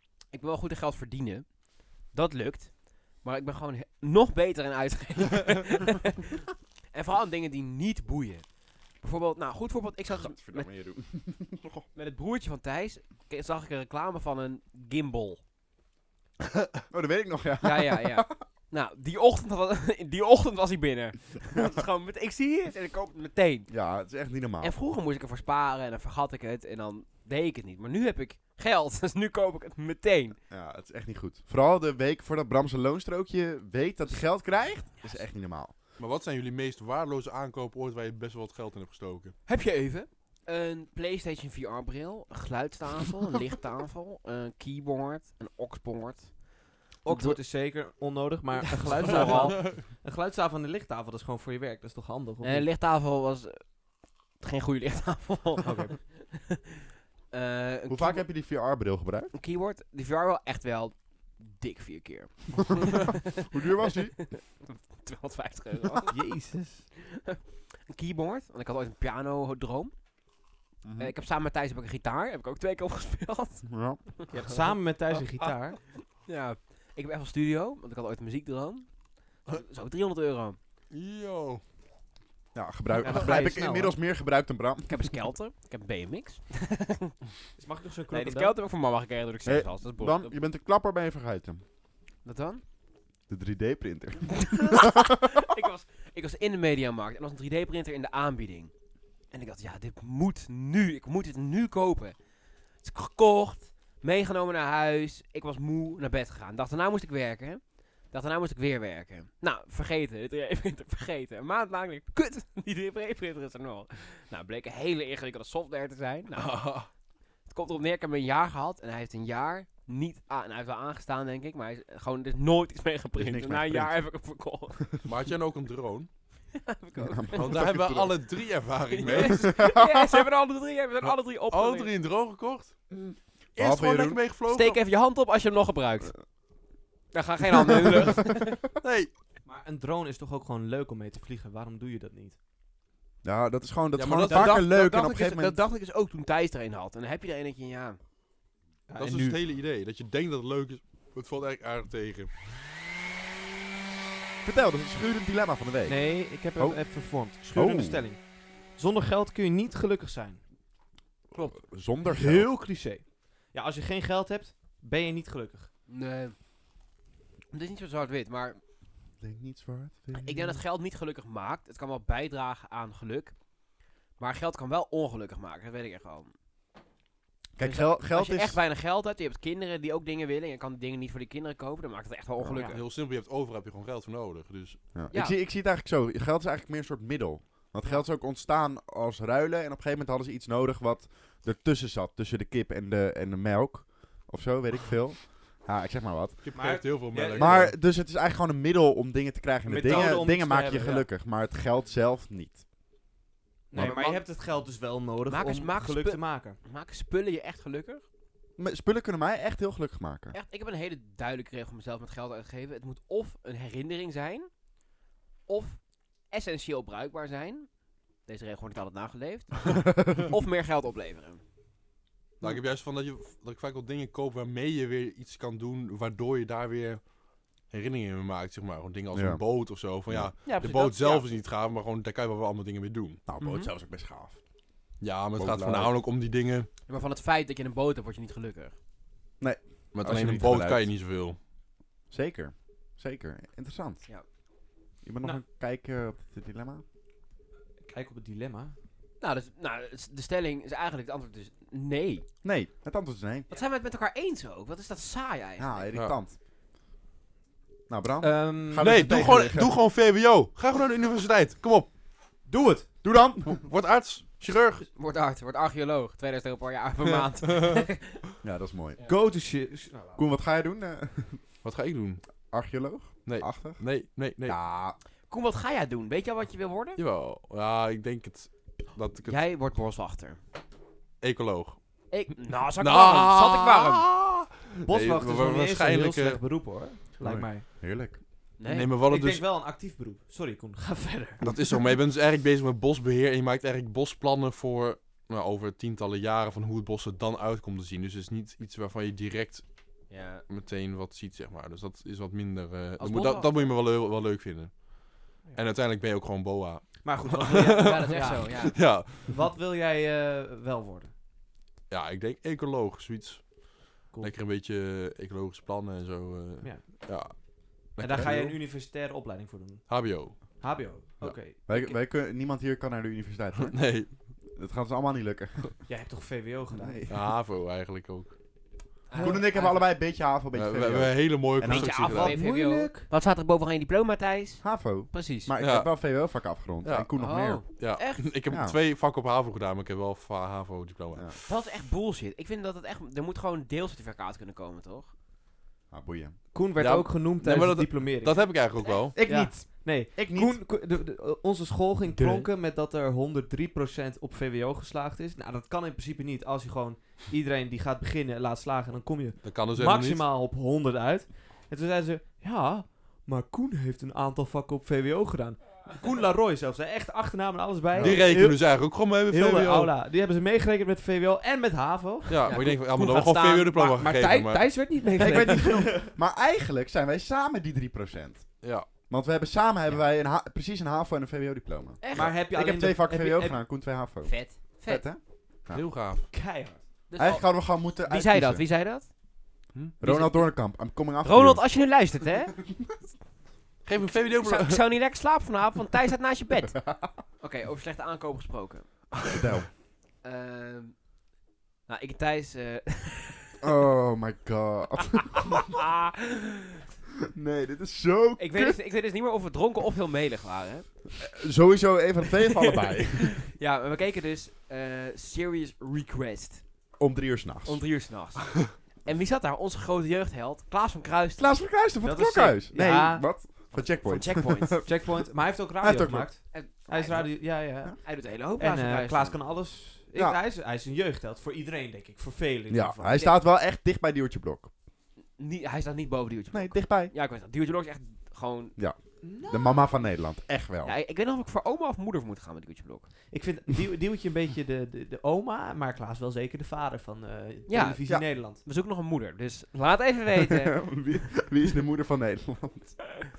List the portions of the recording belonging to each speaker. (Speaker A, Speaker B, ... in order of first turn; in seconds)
Speaker A: 0.3-10.7, 11.9-15.4, 17.6-23.7, 24.6-30.4, 39.5-46.4, 47.0-47.4, 48.6-49.7, 52.4-53.7, 54.4-56.7, 57.3-58.2, 59.3-66.2, 67.0-69.9, 71.0-73.7, 74.2-74.5, 75.4-78.9, 79.5-80.6, 84.9-87.2, 88.1-90.3, 92.2-92.6, 94.5-98.7, 99.3-102.2, 102.8-116.8, 117.5-124.8, 126.5-127.7, 128.9-131.9, 134.5-136.1, 137.1-138.6, 144.3-148.0, 165.9-166.3, 167.5-168.6, 170.1-173.3, 174.2-176.3, 177.6-182.8, 203.8-204.2, 205.3-208.0, 210.3-214.5, 215.5-217.7, 218.2-221.4, 230.4-231.3, 233.4-233.7, 236.9-238.8, 249.2-252.3, 253.5-255.9, 264.9-268.2, 275.3-277.0, 279.2-280.4, 282.1-284.1, 288.6-288.9, 300.1-300.4, 303.0-303.7, 307.8-308.8, 329.1-329.9, 331.6-335.5, 337.2-338.3, 341.5-345.1, 348.8-349.1, 352.2-352.5, 372.4-373.8, 382.0-382.4, 384.2-385.1, 387.1-389.1, 390.0-390.6, 391.2-392.5, 394.2-396.8, 397.4-398.9, 400.2-401.0, 401.9-403.5, 405.5-406.8, 408.4-410.9, 412.6-416.6, 417.6-421.5, 423.7-424.9, 426.5-429.4, 435.4-438.8, 440.8-443.1, 447.7-450.9
Speaker B: 10.1-11.8, 16.9-18.4, 23.7-24.7, 30.5-35.7, 57.9-59.3, 62.6-64.2, 70.8-71.1, 73.6-74.0, 82.5-85.1, 89.5-91.6, 93.3-95.3, 123.2-124.0, 127.0-128.2, 129.1-130.2, 133.6-134.2, 143.2-145.6, 154.4-156.8, 157.4-158.1, 161.4-162.5, 169.2-170.6, 177.6-178.6, 184.9-196.5, 197.2-202.6, 208.6-210.4, 229.1-229.4, 230.1-230.3, 233.3-234.4, 235.4-235.9, 239.4-240.9, 242.1-244.0, 245.0-246.8, 252.4-253.5, 255.6-256.4, 257.9-259.7, 263.0-263.6, 268.4-269.0, 270.2-271.4, 272.5-273.9, 274.4-275.0, 287.2-288.2, 321.5-323.9, 324.5-325.8, 326.7-327.2, 329.2-332.1, 334.6-337.6, 338.5-338.8, 345.9-346.4, 349.1-350.6, 375.2-385.9, 387.2-388.6, 390.0-391.6, 399.2-399.7, 403.6-405.7, 407.3-408.8, 411.2-413.4, 417.0-417.9, 421.4-425.2, 425.8-426.3, 430.1-430.4, 432.7-434.7, 436.5-437.1, 438.8-440.9, 450.4-453.1
Speaker C: 36.0-39.3, 49.0-49.8, 80.9-81.6, 116.3-116.9, 125.0-126.1, 127.3-129.5, 131.0-132.8, 133.6-134.8, 138.8-139.1, 144.0-144.6, 149.0-152.3, 182.7-184.8, 196.4-197.8, 222.4-227.0, 227.7-233.2, 235.0-236.7, 239.9-241.4, 258.8-261.9, 263.4-264.9, 267.5-267.8, 271.6-272.2, 273.2-274.6, 277.0-279.4, 281.2-281.8, 282.8-286.4, 288.7-289.4, 291.4-299.7, 300.5-309.3, 311.9-317.4, 317.9-318.6, 319.9-321.4, 323.6-324.1, 327.1-328.3, 330.5-332.4, 335.6-336.1, 336.8-341.4, 346.8-349.2, 359.4-360.3, 368.0-369.9, 372.3-374.7, 378.6-378.9, 385.7-386.3, 393.9-394.8
Speaker D: 47.0-52.7, 55.6-55.9, 66.1-66.8, 74.3-75.8, 83.0-84.0, 87.6-88.5, 139.4-142.4, 148.9-149.4, 155.9-158.2, 158.7-160.4, 162.1-165.7, 196.6-197.7, 199.7-201.1, 203.7-206.6, 247.9-248.8, 258.2-259.0, 262.5-262.9, 269.1-270.2, 284.8-287.6, 289.1-291.4, 307.0-311.1, 316.6-317.4, 318.0-321.8, 325.9-327.0, 329.2-329.4, 332.1-333.1, 346.5-348.5, 349.2-372.6, 373.7-376.1, 382.1-383.6, 386.3-386.8, 422.0-423.3, 424.9-433.3, 439.2-439.9, 443.3-448.6